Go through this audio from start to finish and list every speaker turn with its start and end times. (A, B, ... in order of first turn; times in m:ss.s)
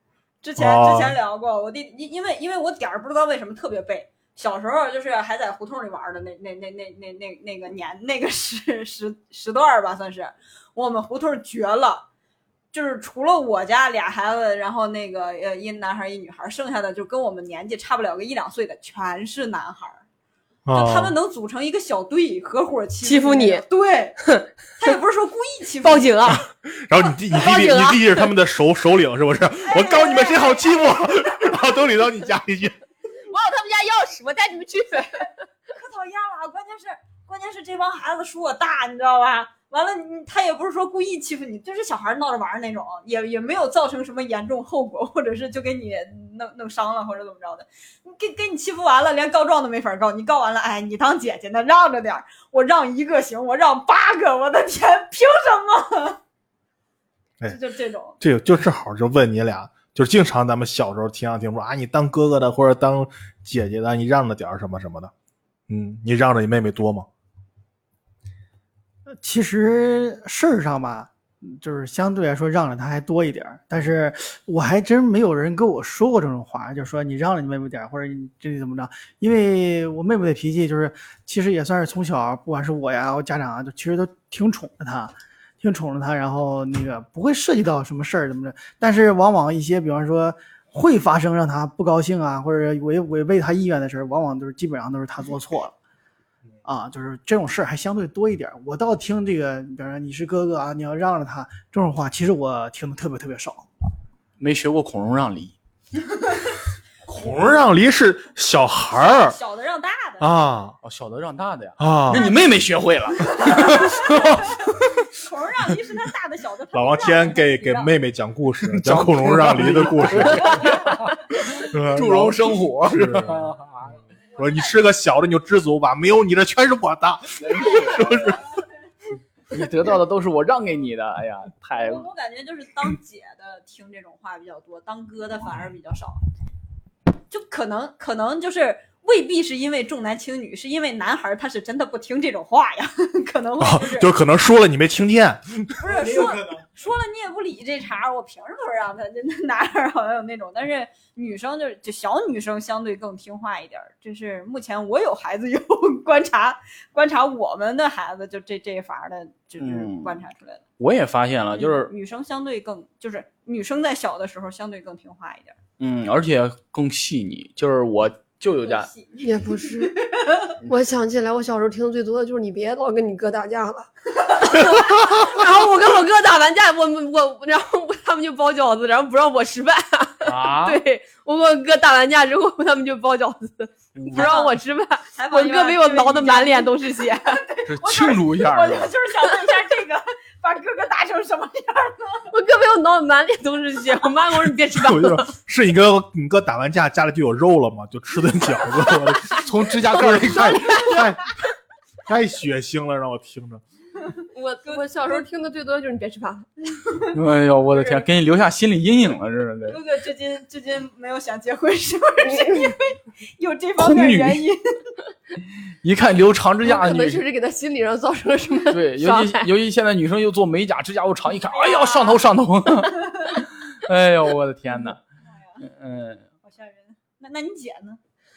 0:00.4-0:12.0 A
0:00.6-0:01.2 B
0:12.7-0:20.0 A
0:20.6-0:21.1 B
0:20.7-0:24.2 A
0:23.0-0:23.6 C
0:24.2-0:24.9 C
0:24.8-0:26.2 A
0:25.8-0:26.4 C
0:26.6-0:32.8 B
0:27.3-0:28.2 C
0:29.6-0:31.1 A
0:33.3-0:35.3 C
0:35.7-0:56.2 A
0:57.4-0:58.2 A
0:58.2-1:05.1 B
1:05.7-1:07.1 B
1:09.1-1:35.7 D
1:36.6-1:43.7 D
1:44.4-1:45.6 E
1:47.1-1:49.4 B
1:48.9-1:50.3 A
1:50.2-1:50.8 B
1:50.8-1:54.5 E
1:51.8-1:52.3 B
1:53.3-1:57.9 A
1:56.7-2:00.9 B
1:58.6-2:04.0 E
2:01.6-2:03.5 B
2:04.4-2:04.7 A
2:04.4-2:08.4 B
2:07.4-2:08.3 E
2:08.2-2:08.6 A
2:09.5-2:12.1 E
2:11.8-2:16.2 A
2:17.3-2:24.1 A
2:23.6-2:26.6 B
2:25.8-2:40.6 A
2:39.6-2:40.1 E
2:40.8-2:41.9 E
2:41.5-2:45.6 A
2:45.8-2:48.9 E
2:48.6-2:50.5 A
2:49.2-2:49.9 C
2:50.6-3:07.4 C
3:00.2-3:00.8 E
3:04.0-3:04.3 E
3:04.1-3:04.6 A
3:05.2-3:12.3 A
3:07.7-3:08.9 E
3:12.3-3:15.3 C
3:14.4-3:21.2 B
3:19.4-3:21.0 E
3:22.0-3:23.6 B
3:24.3-3:26.5 C
3:24.6-3:25.2 A
3:27.1-3:29.8 E
3:27.7-3:28.0 A
3:29.7-3:34.8 A
3:32.2-3:32.7 C
3:33.8-3:34.4 E
3:35.8-3:37.2 E
3:36.6-3:39.5 C
3:38.7-3:45.0 E
3:41.5-3:42.2 A
3:43.0-3:43.3 A
3:45.3-3:45.7 A
3:45.6-3:46.2 E
3:46.4-3:48.0 A